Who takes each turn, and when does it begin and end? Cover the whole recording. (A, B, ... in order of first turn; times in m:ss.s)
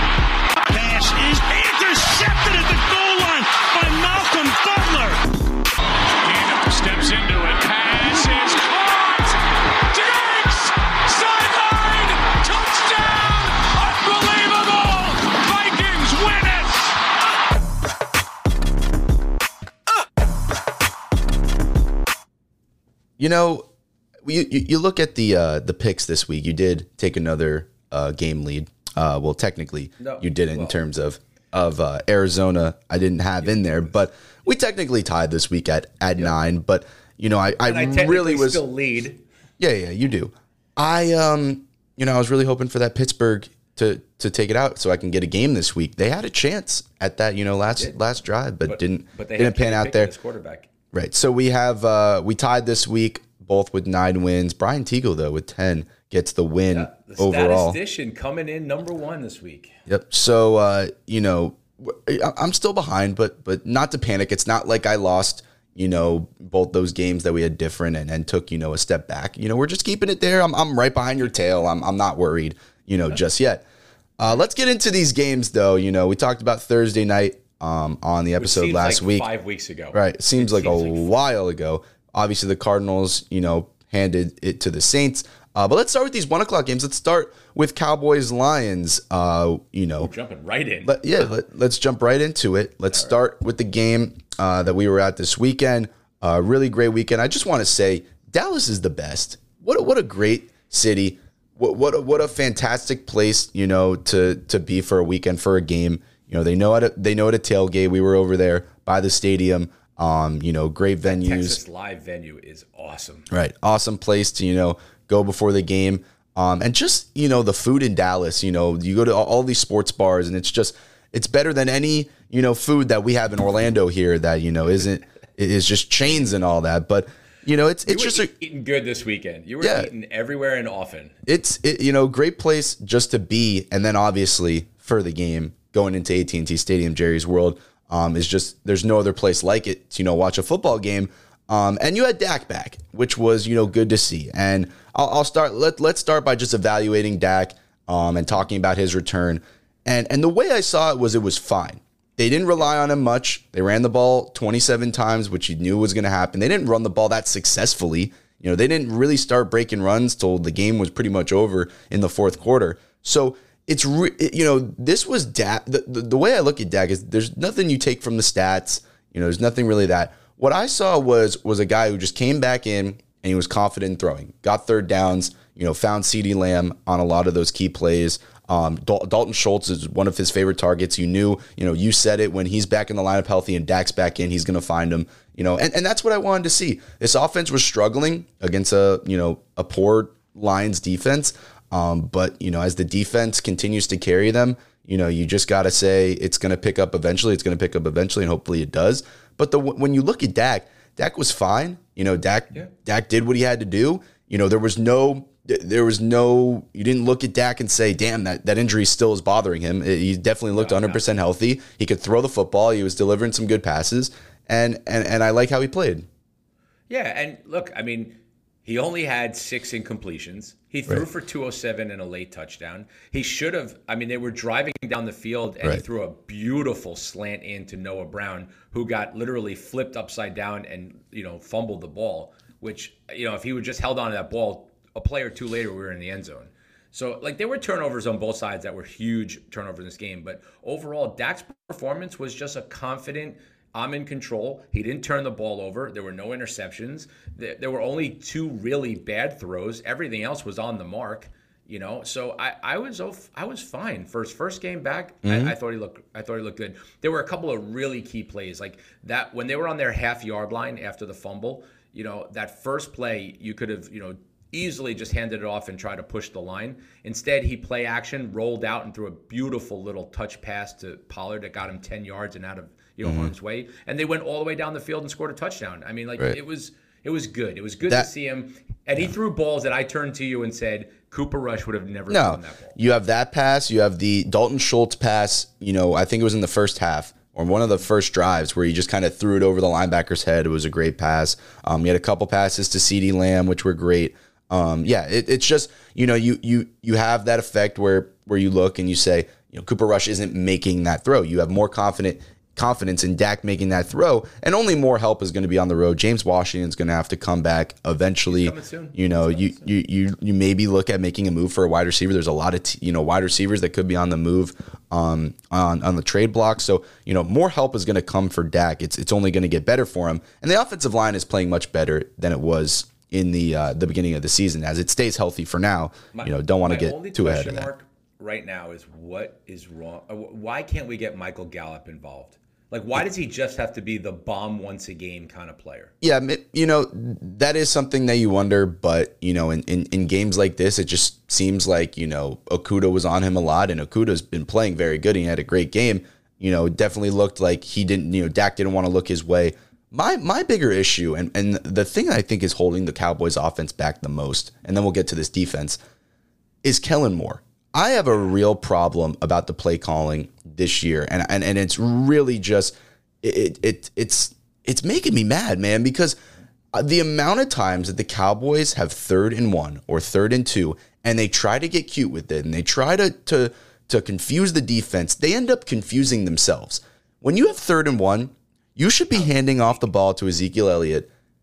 0:00.6-0:05.4 A
0:06.2-0:17.0 A
0:23.2-0:23.7 B
0:24.2-0:38.6 B
0:30.0-0:30.8 C
0:37.6-0:39.2 C
0:39.6-0:50.1 B
0:48.6-0:50.7 C
0:50.9-0:57.8 B
0:56.7-0:59.8 C
0:59.9-1:13.6 B
1:14.2-1:19.3 B
1:18.4-1:21.1 C
1:19.9-1:30.1 B
1:30.0-1:31.2 C
1:30.8-1:51.6 B
1:51.0-1:53.3 C
1:53.3-2:08.3 B
2:07.8-2:11.2 C
2:09.6-2:09.9 B
2:11.3-3:36.1 B
3:30.5-3:31.0 C
3:36.9-4:42.8 C
4:15.2-4:15.5 B
4:33.0-4:33.3 B
4:42.1-5:27.7 B
5:08.2-5:09.7 C
5:26.1-5:35.9 C
5:36.0-5:55.8 B
5:56.6-6:06.2 B
6:06.7-6:21.1 B